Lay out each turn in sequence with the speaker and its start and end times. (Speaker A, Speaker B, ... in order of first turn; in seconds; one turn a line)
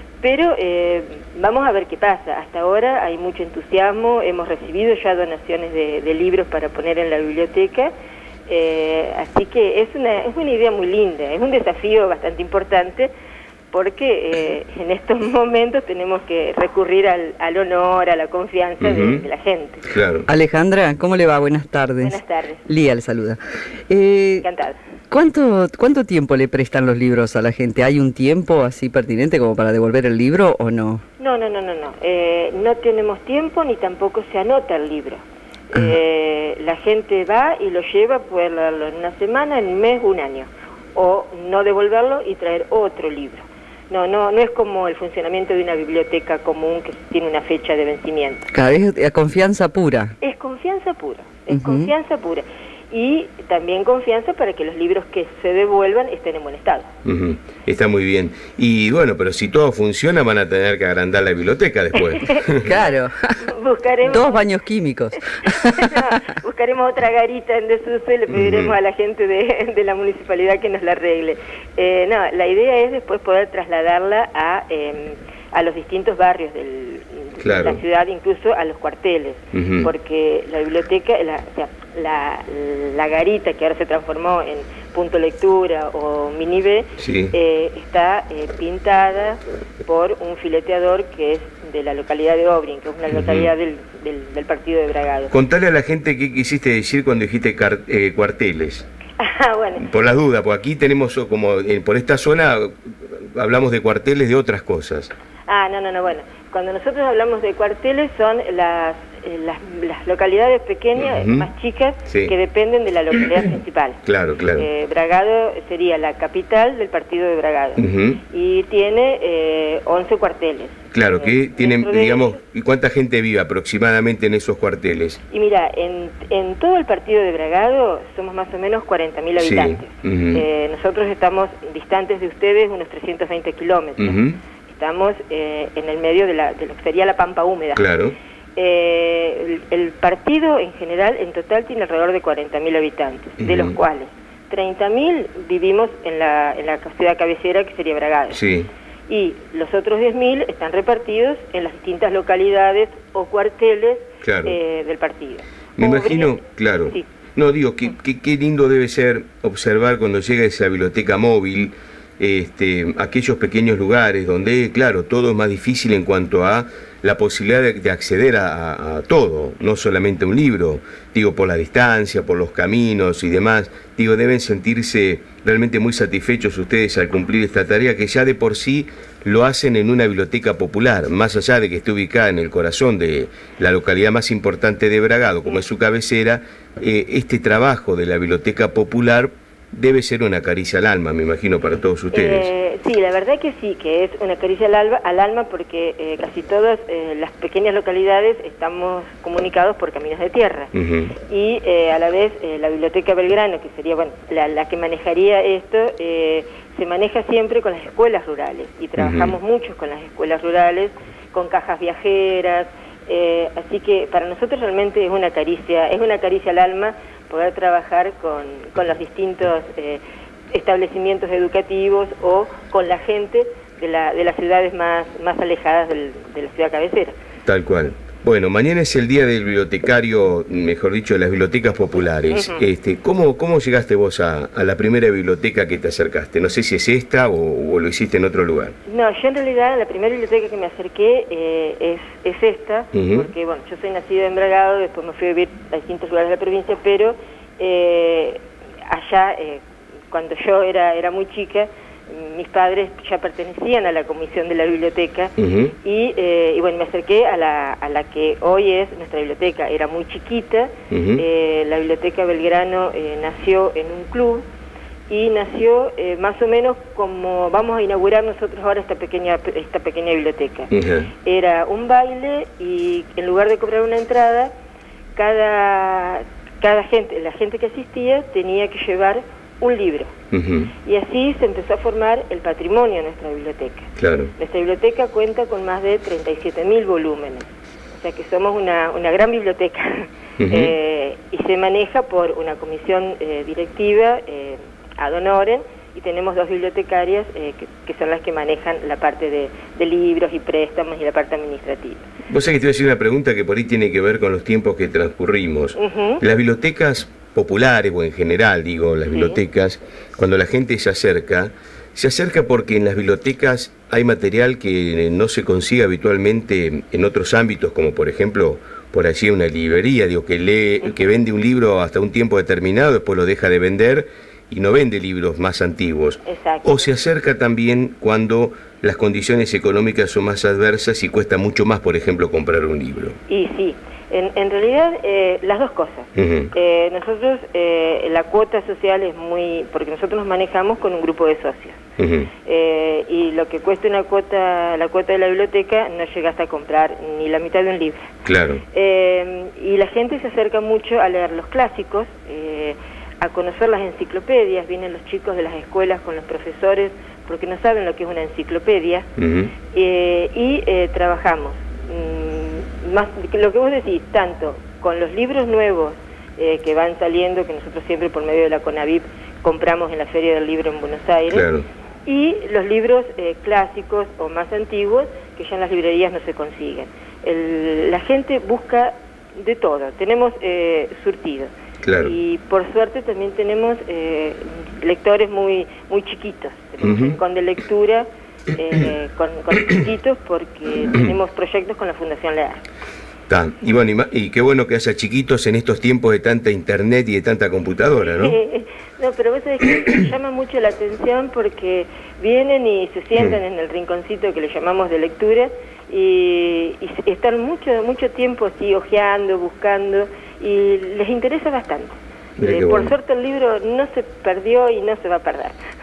Speaker A: 0.2-7.9
Speaker A: 8.5-13.1
Speaker A: 13.7-19.8
Speaker B: 18.8-19.2
Speaker B: 19.9-20.3
Speaker C: 20.3-24.5
Speaker A: 22.0-22.6
Speaker A: 24.4-24.8
Speaker C: 25.1-31.0
Speaker A: 31.2-48.5
Speaker C: 48.5-50.1
Speaker A: 50.2-56.9
Speaker C: 51.5-51.9
Speaker B: 57.0-62.7
Speaker A: 62.1-64.4
Speaker C: 62.6-63.5
Speaker C: 64.1-66.2
Speaker A: 65.3-95.3
Speaker B: 68.3-68.7
Speaker B: 77.4-77.8
Speaker B: 79.5-79.9
Speaker B: 87.0-87.3
Speaker B: 93.1-93.5
Speaker B: 95.3-98.9
Speaker A: 99.2-99.8
Speaker B: 99.8-105.1
Speaker A: 105.5-114.0
Speaker B: 111.0-111.5
Speaker B: 112.1-112.3
Speaker B: 114.0-114.7
Speaker A: 114.6-122.4
Speaker B: 117.8-118.2
Speaker B: 120.9-125.2
Speaker A: 125.3-137.8
Speaker B: 129.4-130.4
Speaker B: 134.0-134.4
Speaker B: 137.8-138.2
Speaker A: 138.6-148.4
Speaker B: 143.4-143.8
Speaker B: 148.3-148.7
Speaker A: 149.1-157.1
Speaker B: 154.2-154.6
Speaker B: 155.8-192.5
Speaker A: 192.1-200.7
Speaker B: 200.7-201.1
Speaker A: 201.3-227.2
Speaker B: 209.0-209.4
Speaker B: 227.4-238.7
Speaker A: 232.3-232.6
Speaker A: 238.9-264.4
Speaker B: 242.9-243.3
Speaker B: 255.4-255.7
Speaker B: 260.9-261.2
Speaker A: 265.1-270.7
Speaker B: 270.7-271.1
Speaker A: 271.2-274.5
Speaker A: 275.2-280.1
Speaker B: 280.3-280.7
Speaker A: 280.9-302.1
Speaker B: 284.0-284.3
Speaker B: 290.4-290.7
Speaker B: 302.3-333.2
Speaker A: 305.8-306.2
Speaker A: 309.1-309.4
Speaker A: 326.2-326.9
Speaker A: 333.3-341.8
Speaker B: 336.2-336.5
Speaker B: 342.0-342.3
Speaker A: 342.5-348.1
Speaker B: 348.2-348.6
Speaker A: 348.7-359.1
Speaker B: 359.2-359.5
Speaker A: 359.7-371.5
Speaker B: 371.3-371.7
Speaker A: 372.1-392.6
Speaker B: 381.8-382.2
Speaker B: 386.8-387.2
Speaker B: 393.3-398.4
Speaker A: 398.1-415.6
Speaker B: 412.4-412.9